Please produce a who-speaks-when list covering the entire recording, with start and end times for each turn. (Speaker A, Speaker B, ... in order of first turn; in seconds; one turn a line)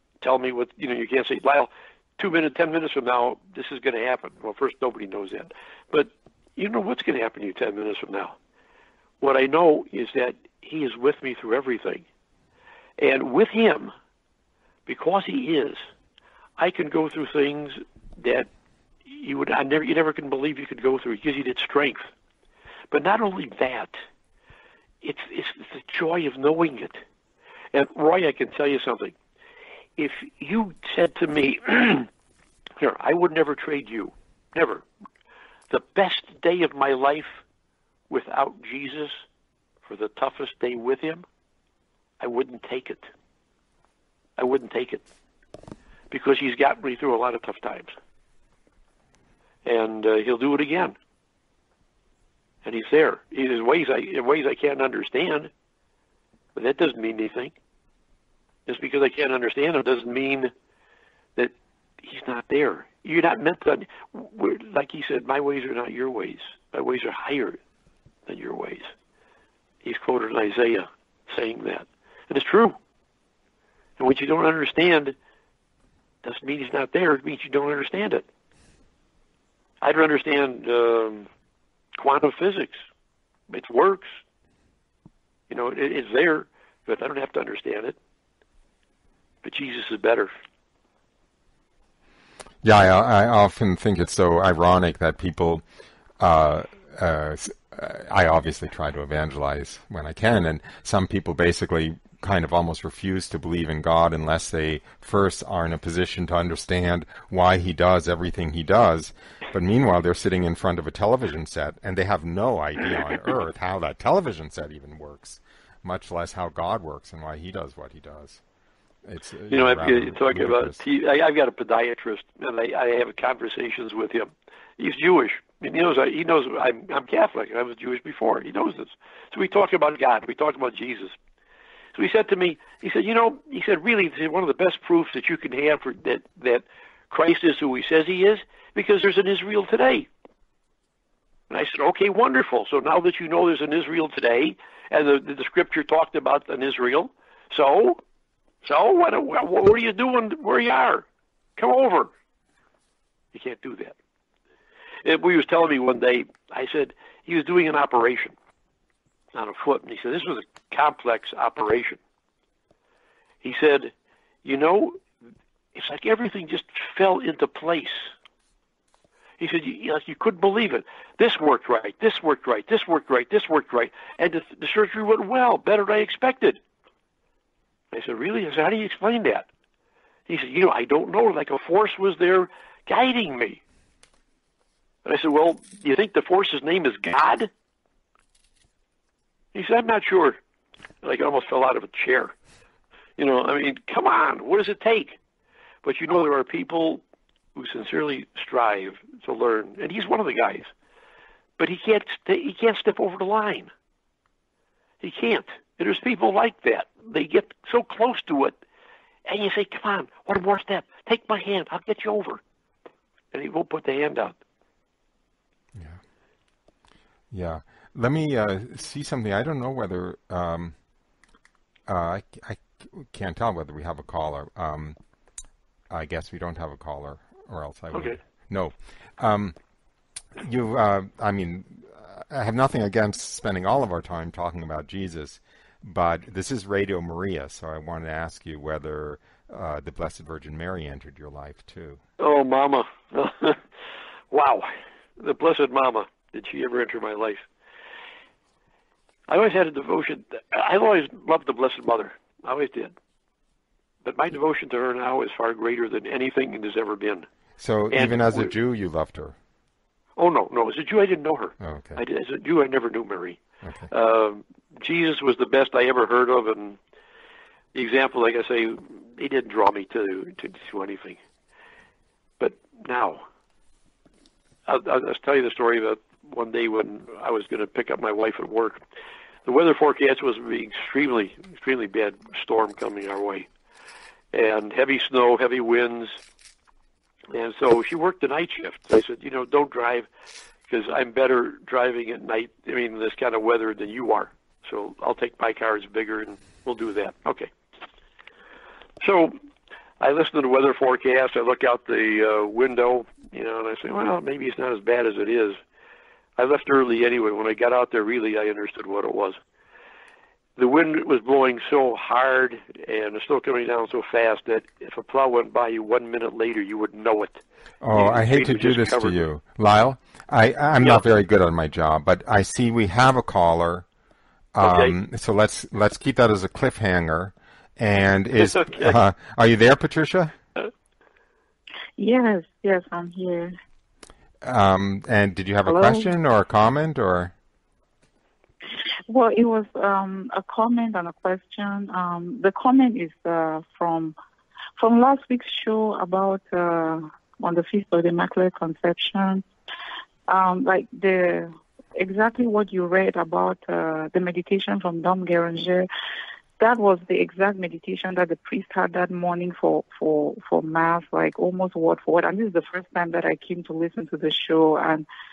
Speaker A: 0.2-8.4
Speaker A: 9.2-12.1
Speaker A: 13.0-13.9
Speaker A: 14.9-15.8
Speaker A: 16.6-18.5
Speaker A: 19.1-22.1
Speaker A: 22.9-24.0
Speaker A: 25.0-27.0
Speaker A: 27.7-29.1
Speaker A: 30.0-32.1
Speaker A: 32.8-34.9
Speaker A: 35.7-37.4
Speaker A: 38.1-39.2
Speaker A: 39.8-41.2
Speaker A: 42.2-43.1
Speaker A: 44.4-45.0
Speaker A: 46.1-48.0
Speaker A: 49.6-51.0
Speaker A: 52.6-55.5
Speaker A: 56.5-57.5
Speaker A: 58.7-60.5
Speaker A: 61.4-67.6
Speaker A: 68.3-68.9
Speaker A: 69.8-72.8
Speaker A: 74.0-75.2
Speaker A: 76.2-78.3
Speaker A: 79.8-81.3
Speaker A: 82.0-82.8
Speaker A: 83.5-84.2
Speaker A: 85.5-88.0
Speaker A: 89.4-90.3
Speaker B: 92.6-95.7
Speaker B: 96.2-118.4
Speaker B: 119.0-120.8
Speaker A: 119.5-131.2
Speaker A: 131.9-140.1
Speaker A: 141.5-148.0
Speaker A: 148.6-151.1
Speaker A: 151.6-152.1
Speaker A: 153.3-154.0
Speaker A: 155.1-158.3
Speaker A: 159.3-162.0
Speaker A: 163.4-163.9
Speaker A: 164.4-165.0
Speaker A: 165.8-168.1
Speaker A: 169.4-176.6
Speaker A: 177.9-179.5
Speaker A: 180.3-183.6
Speaker A: 185.1-187.5
Speaker A: 189.5-190.4
Speaker A: 191.0-192.3
Speaker A: 193.2-195.2
Speaker A: 195.8-197.0
Speaker A: 197.6-200.7
Speaker A: 201.6-203.7
Speaker A: 205.0-208.6
Speaker A: 209.3-212.4
Speaker A: 213.3-214.4
Speaker B: 215.8-216.0
Speaker B: 217.3-220.8
Speaker B: 221.9-225.0
Speaker B: 225.9-229.6
Speaker A: 227.9-228.2
Speaker B: 230.4-242.0
Speaker A: 242.2-243.6
Speaker A: 244.3-247.4
Speaker A: 249.3-252.9
Speaker A: 254.0-257.3
Speaker B: 257.6-259.4
Speaker A: 257.9-258.5
Speaker A: 260.2-266.8
Speaker B: 261.6-262.0
Speaker B: 263.6-263.9
Speaker A: 267.7-271.2
Speaker A: 272.4-273.2
Speaker A: 274.7-278.8
Speaker A: 279.4-283.5
Speaker A: 284.3-286.2
Speaker A: 287.3-290.1
Speaker A: 290.7-297.5
Speaker A: 299.0-299.4
Speaker A: 300.0-305.6
Speaker A: 306.4-309.4
Speaker A: 310.6-319.2
Speaker B: 317.8-323.9
Speaker B: 324.6-330.4
Speaker A: 324.6-324.9
Speaker A: 328.5-328.8
Speaker C: 332.0-333.6
Speaker B: 334.4-337.3
Speaker C: 335.7-336.1
Speaker C: 339.1-344.1
Speaker C: 344.8-349.4
Speaker C: 350.3-355.9
Speaker C: 356.6-365.1